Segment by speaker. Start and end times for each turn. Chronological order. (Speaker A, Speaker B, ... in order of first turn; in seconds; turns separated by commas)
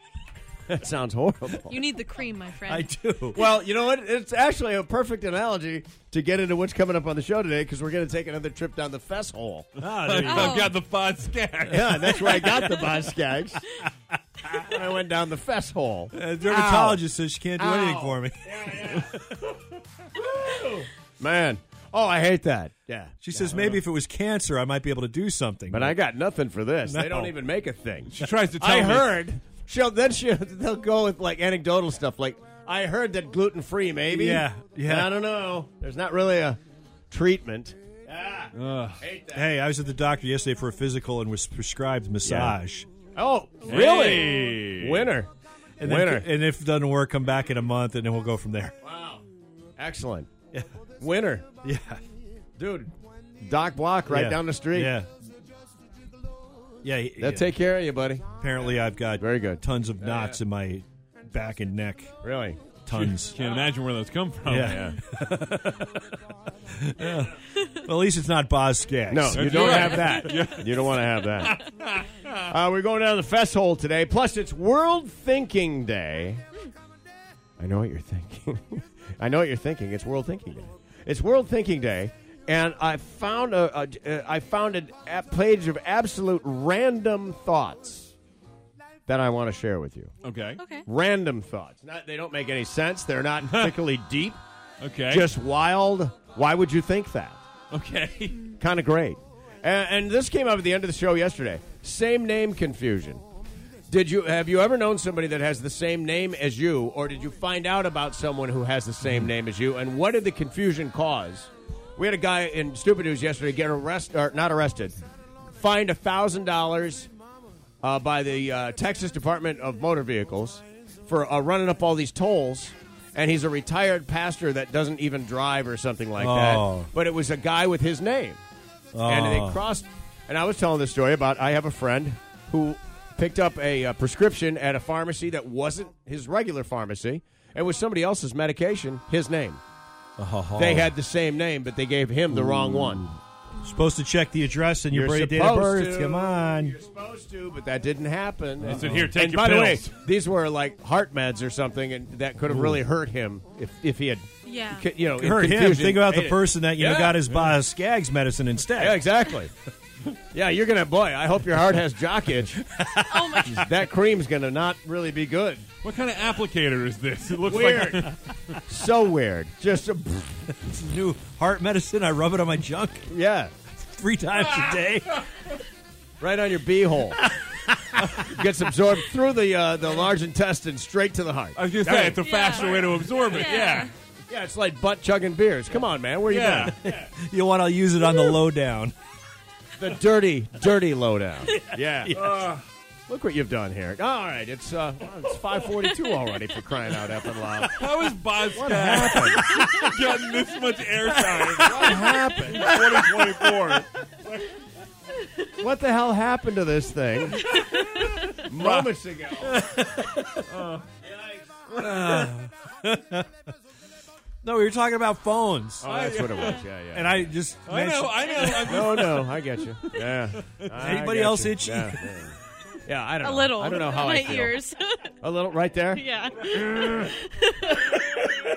Speaker A: 0.7-1.8, Speaker B: 1.7-2.9, Speaker C: 2.6-3.4, Speaker A: 3.3-9.7, Speaker C: 9.8-10.7, Speaker D: 9.8-12.6, Speaker B: 10.2-10.7, Speaker A: 11.7-13.7, Speaker C: 11.9-12.7, Speaker A: 14.5-17.0, Speaker C: 16.1-18.4, Speaker A: 17.6-19.2, Speaker A: 20.2-23.8, Speaker C: 23.2-26.0, Speaker A: 25.7-39.5, Speaker C: 26.9-27.3, Speaker D: 28.1-29.2, Speaker C: 34.1-35.2, Speaker D: 38.5-39.0, Speaker C: 39.3-42.9, Speaker A: 42.2-42.6, Speaker A: 43.1-45.3, Speaker D: 43.7-45.1, Speaker C: 45.8-48.8, Speaker A: 45.8-46.3, Speaker A: 48.8-49.2, Speaker A: 49.8-50.3, Speaker A: 51.0-51.5, Speaker C: 51.6-52.0, Speaker A: 52.6-55.0, Speaker C: 54.1-55.1, Speaker C: 56.8-57.6, Speaker A: 57.2-58.3, Speaker C: 58.4-62.1, Speaker A: 59.2-60.4, Speaker A: 62.2-62.6, Speaker C: 62.9-63.4, Speaker D: 62.9-64.8, Speaker C: 64.5-66.0, Speaker A: 64.7-65.0, Speaker C: 66.7-69.8, Speaker A: 69.1-71.6, Speaker D: 69.3-72.4, Speaker A: 72.4-76.5, Speaker A: 77.6-88.1, Speaker A: 89.1-90.1, Speaker D: 90.2-90.6, Speaker B: 90.6-90.8, Speaker A: 90.9-94.4, Speaker D: 93.4-93.7, Speaker D: 94.8-95.3, Speaker A: 95.1-97.4, Speaker D: 97.7-98.5, Speaker A: 98.6-103.2, Speaker A: 103.9-115.0, Speaker A: 115.6-117.1, Speaker A: 117.8-128.4, Speaker C: 126.2-126.9, Speaker C: 128.9-129.6, Speaker A: 129.0-139.6, Speaker C: 140.2-140.9, Speaker A: 140.6-143.1, Speaker C: 142.5-143.0, Speaker C: 143.6-146.8, Speaker A: 144.9-157.2, Speaker D: 148.6-149.9, Speaker C: 148.7-149.1, Speaker C: 152.5-152.8, Speaker B: 154.4-154.9, Speaker C: 155.2-159.0, Speaker A: 158.8-159.5, Speaker A: 160.3-162.6, Speaker C: 162.7-163.7, Speaker B: 163.1-163.6, Speaker A: 163.5-165.7, Speaker D: 165.8-168.6, Speaker A: 167.4-168.1, Speaker A: 168.7-170.5, Speaker C: 170.6-173.1, Speaker A: 173.1-173.5, Speaker C: 173.8-175.2, Speaker A: 176.2-177.2, Speaker C: 177.2-178.2, Speaker A: 178.0-181.6, Speaker D: 181.6-183.9, Speaker C: 181.8-182.2, Speaker B: 182.2-183.9, Speaker A: 184.3-186.8, Speaker D: 186.2-186.7, Speaker C: 186.6-188.9, Speaker A: 189.8-192.2, Speaker C: 191.5-192.4, Speaker D: 192.2-192.6, Speaker A: 193.1-197.8, Speaker D: 197.8-203.9, Speaker A: 198.4-199.5, Speaker C: 199.3-199.8, Speaker C: 201.3-203.8, Speaker A: 201.6-202.7, Speaker A: 205.5-207.6, Speaker A: 208.3-209.6, Speaker C: 209.5-210.4, Speaker D: 210.5-210.9, Speaker C: 211.7-213.3, Speaker C: 214.4-215.9, Speaker A: 215.8-217.3, Speaker D: 215.8-216.6, Speaker C: 216.9-218.8, Speaker D: 217.7-220.8, Speaker A: 218.4-224.6, Speaker C: 220.8-222.0, Speaker B: 223.2-225.2, Speaker A: 225.2-227.1, Speaker B: 225.9-228.0